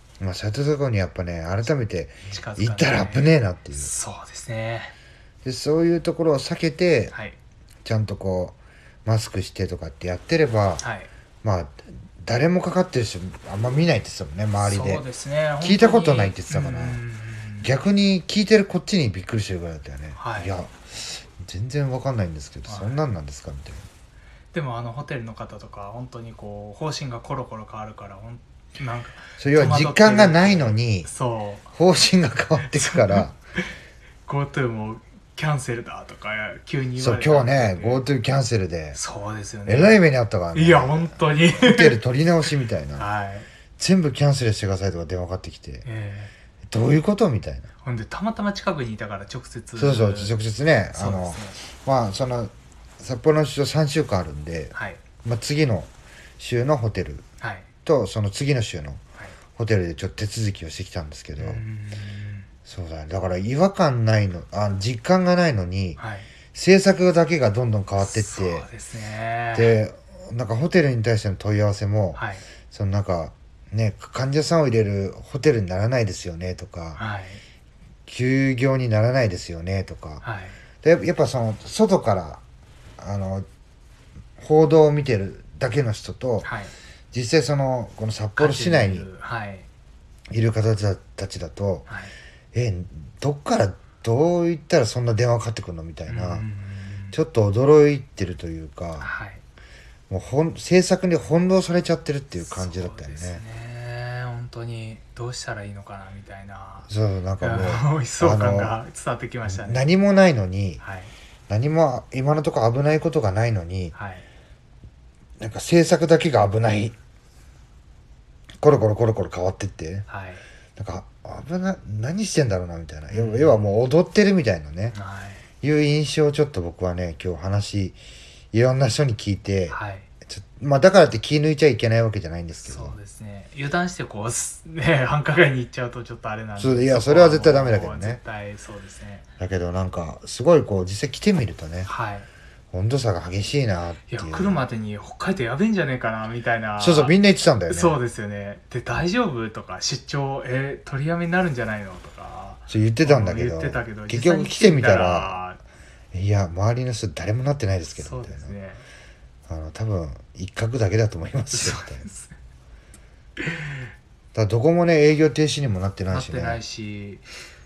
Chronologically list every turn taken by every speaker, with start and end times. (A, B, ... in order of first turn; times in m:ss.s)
0:00.2-0:03.9 A
0:02.3-0:04.9 B
0:05.4-0:07.1 A
0:07.1-0:07.4 B
0:07.8-0:10.8 A
0:10.8-0:11.1 B
0:11.4-0:15.0 A
0:14.6-0:17.7 B
0:15.6-0:17.0 A
0:17.6-0:23.8 A
0:20.2-0:20.6 B
0:22.7-0:23.0 B
0:24.5-0:31.7 B
0:29.4-0:31.1 A
0:31.7-0:33.4 A
0:32.7-0:33.2 B
0:34.3-0:38.1 B
0:37.0-0:39.0 A
0:38.9-0:40.0 B
0:39.7-0:43.1 A
0:40.5-0:42.0 B
0:43.0-0:43.5 B
0:43.8-0:45.9 A
0:45.8-0:46.3 B
0:46.7-0:47.7 A
0:47.8-0:50.3 B
0:49.8-0:57.3 A
0:50.9-0:51.6 B
0:54.7-0:55.0 B
0:57.4-0:57.7 B
0:57.9-0:59.0 A
0:59.6-1:01.6 A
1:01.4-1:02.5 B
1:02.7-1:06.0 A
1:06.0-1:06.3 B
1:06.5-1:08.7 A
1:08.0-1:09.8 B
1:09.5-1:17.0 A
1:12.2-1:12.4 B
1:17.0-1:17.4 B
1:18.1-1:20.2 A
1:20.2-1:20.6 B
1:20.8-1:22.4 A
1:23.0-1:23.5 A
1:24.4-1:26.5 A
1:26.4-1:26.7 B
1:27.1-1:29.1 A
1:28.4-1:29.7 B
1:30.3-1:31.9 A
1:31.9-1:32.1 B
1:32.5-1:36.5 A
1:36.1-1:37.2 B
1:37.1-1:39.1 A
1:39.0-1:39.4 B
1:40.1-1:43.4 A
1:42.4-1:46.9 B
1:46.9-1:48.8 A
1:47.4-1:49.8 B
1:49.4-1:50.8 A
1:50.8-1:51.1 B
1:51.5-1:54.0 A
1:53.9-1:54.2 B
1:55.4-1:57.0 A
1:58.6-2:00.1 A
2:00.1-2:00.4 B
2:00.8-2:05.0 A
2:03.1-2:03.6 B
2:04.9-2:05.4 B
2:05.6-2:08.0 A
2:08.5-2:13.0 A
2:09.7-2:10.1 B
2:12.6-2:19.2 B
2:16.6-2:18.2 A
2:19.4-2:21.9 A
2:21.9-2:22.3 B
2:22.7-2:24.6 A
2:24.1-2:27.2 B
2:26.8-2:28.0 A
2:27.7-2:35.6 B
2:32.7-2:35.4 A
2:36.1-2:38.6 A
2:37.9-2:38.8 B
2:39.5-2:42.1 A
2:41.5-2:42.4 B
2:43.4-2:43.8 B
2:44.4-2:46.6 A
2:46.1-2:47.3 B